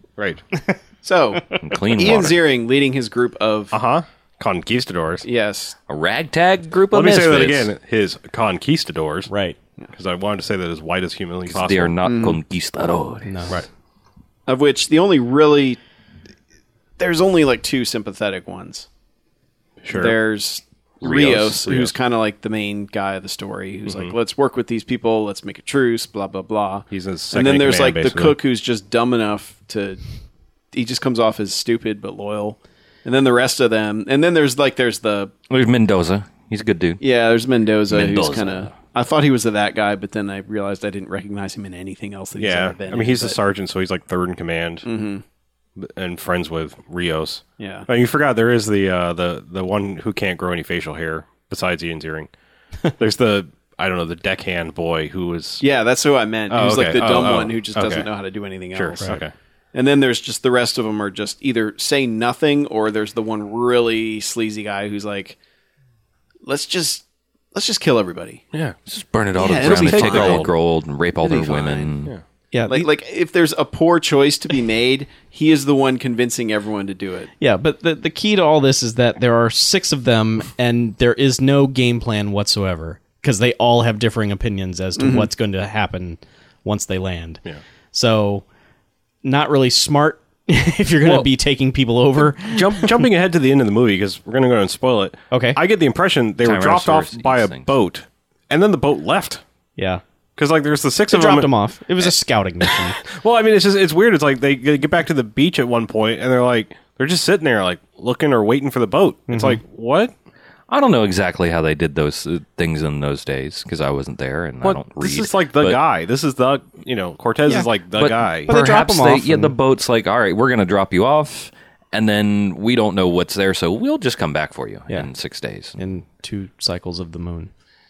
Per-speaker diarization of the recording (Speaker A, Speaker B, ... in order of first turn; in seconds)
Speaker A: 0.2-0.4, 3.7-5.3, 6.9-9.3, 9.9-11.9, 19.8-20.2, 23.9-24.2, 26.9-28.4, 42.4-44.9, 45.8-52.3, 53.0-55.6, 56.5-58.1, 58.7-59.3, 69.6-70.5, 91.0-91.3, 92.4-99.4, 100.4-102.1, 102.6-110.1, 114.6-118.5
Speaker B: 1.0-3.8, 5.2-5.8, 12.0-12.4, 14.5-15.8, 17.0-18.9, 19.9-30.0, 30.7-35.3, 37.0-43.4, 44.9-45.2, 47.6-47.9, 55.6-59.2, 59.7-65.4, 66.4-68.4, 69.4-70.5, 71.2-71.9, 72.7-77.3, 85.0-85.3
Speaker C: 1.6-2.4, 5.9-7.7, 11.5-13.5, 21.0-21.9, 35.5-37.0, 37.9-38.7, 68.9-72.1, 96.4-97.7, 110.7-115.8, 118.0-125.8
Speaker D: 9.3-9.6, 13.3-13.6, 72.5-72.9, 77.4-87.4, 87.9-88.5, 89.2-93.0, 95.3-95.6, 99.8-100.0, 101.1-103.0, 109.3-109.6, 118.5-119.5, 125.8-127.5